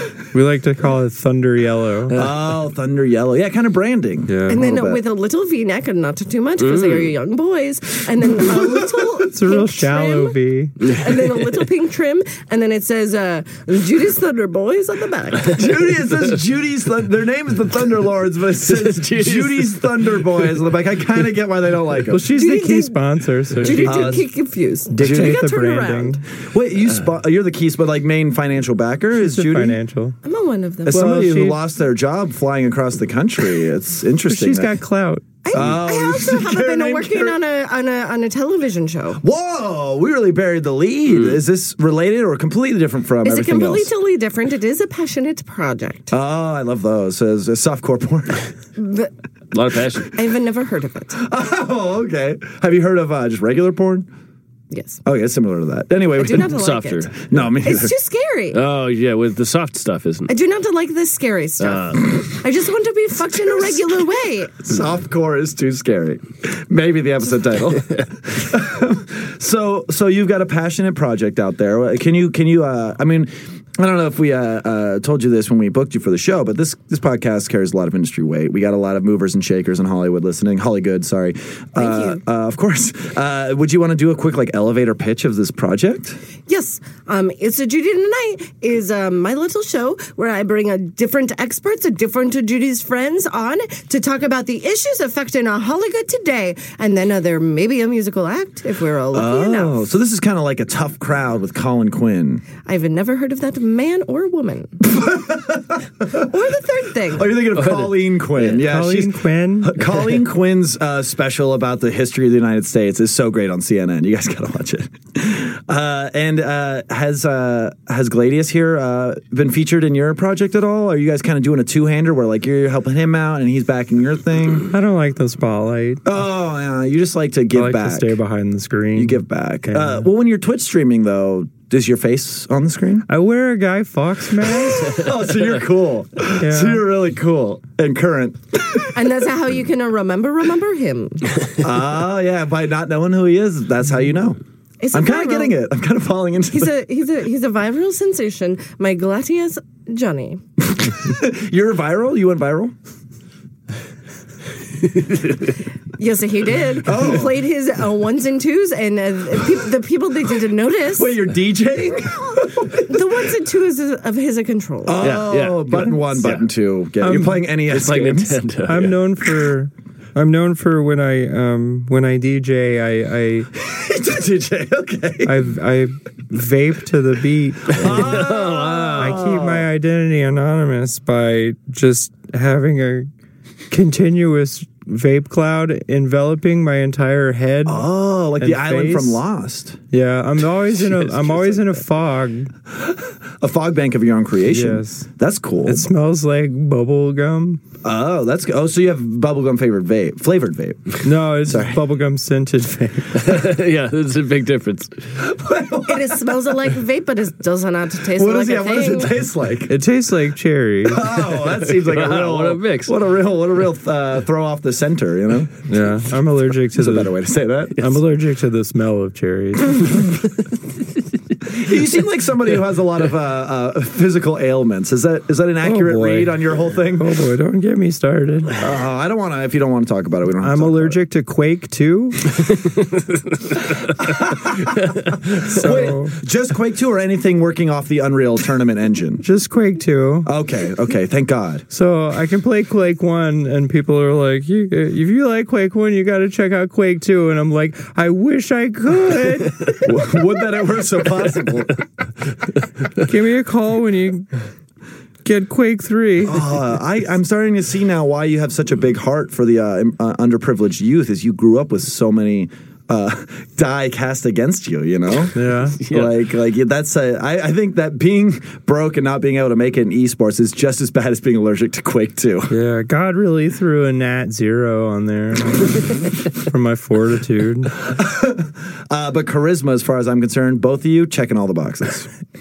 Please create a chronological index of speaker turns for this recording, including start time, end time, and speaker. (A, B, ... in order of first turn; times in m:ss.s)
0:00.3-0:02.2 A
0:02.1-0:05.0 B
0:04.3-0:04.6 A
0:04.5-0:15.6 C
0:06.6-0:07.1 D
0:08.5-0:09.0 B
0:09.3-0:11.0 A
0:15.4-0:22.2 B
0:18.6-0:20.6 D
0:22.1-0:24.2 A
0:22.3-0:26.2 C
0:23.8-0:24.2 B
0:24.9-0:26.2 A
0:25.0-0:25.4 B
0:26.4-0:29.8 B
0:29.1-0:30.2 A
0:30.2-0:31.1 C
0:30.8-0:34.7 B
0:30.9-0:31.6 A
0:34.2-0:35.3 A
0:35.4-0:39.2 C
0:35.5-0:37.4 B
0:39.2-0:43.9 B
0:43.2-0:46.1 C
0:46.1-0:48.5 B
0:48.8-0:49.1 C
0:49.5-0:50.1 D
0:50.1-0:51.2 C
0:51.2-0:54.1 B
0:54.7-0:55.0 C
0:55.0-0:56.6 B
0:56.1-0:58.6 C
0:56.4-0:57.3 D
0:57.2-0:57.9 B
0:58.5-1:00.3 D
1:00.3-1:04.7 C
1:01.6-1:02.0 D
1:04.6-1:26.2 B
1:07.7-1:08.0 D
1:21.8-1:22.2 C
1:26.5-1:39.8 C
1:39.1-1:42.4 B
1:42.6-1:44.8 C
1:44.8-1:46.2 B
1:46.1-1:47.4 C
1:47.1-2:04.7 B
1:47.5-1:47.9 D
1:48.5-1:49.8 A
2:04.7-2:06.0 A
2:06.0-2:08.2 B
2:07.5-2:10.1 A
2:08.9-2:13.0 B
2:13.1-2:15.1 A
2:14.4-2:19.1 B
2:16.4-2:16.8 A
2:18.9-2:21.3 C
2:21.6-2:24.4 B
2:24.8-2:25.6 C
2:24.9-2:26.7 B
2:26.5-2:30.4 C
2:30.6-2:32.7 B
2:36.0-2:41.2 C
2:36.8-2:37.4 B
2:40.9-2:43.1 B
2:42.8-2:45.0 C
2:44.8-2:48.5 B
2:45.0-2:46.4 D
2:47.0-2:47.5 A
2:47.7-2:49.0 D
2:48.6-2:53.5 A
2:53.5-2:55.4 B
2:55.2-2:58.2 A
2:57.7-2:59.7 B
2:57.8-2:59.2 D
2:59.0-3:03.1 A
3:03.7-3:07.8 A
3:07.6-3:09.8 B
3:08.4-3:09.2 A
3:09.9-3:12.5 A
3:12.8-3:15.9 B
3:14.5-3:15.0 A
3:15.6-3:17.6 A
3:17.8-3:21.8 B
3:21.0-3:23.4 A
3:23.1-3:25.2 D
3:25.2-3:26.5 B
3:25.8-3:29.2 C
3:28.1-3:29.7 B
3:29.7-3:31.1 A
3:30.8-3:35.6 B
3:31.4-3:32.9 D
3:35.7-3:37.1 A
3:36.7-3:38.0 B
3:37.8-3:40.2 A
3:41.4-3:47.2 B
3:45.6-3:46.4 A
3:46.9-3:48.6 A
3:48.6-3:51.0 B
3:50.4-3:52.4 A
3:53.0-3:53.6 D
3:53.9-3:59.2 B
3:54.8-3:55.4 D
3:55.4-3:56.2 A
3:59.2-4:00.3 A
4:00.2-4:01.6 B
4:01.7-4:10.2 A
4:09.8-4:11.7 B
4:13.0-4:14.3 A
4:15.2-4:16.5 A
4:16.2-4:32.5 B
4:25.3-4:25.8 A
4:25.8-4:26.1 D
4:32.5-4:37.9 A
4:37.8-4:42.1 B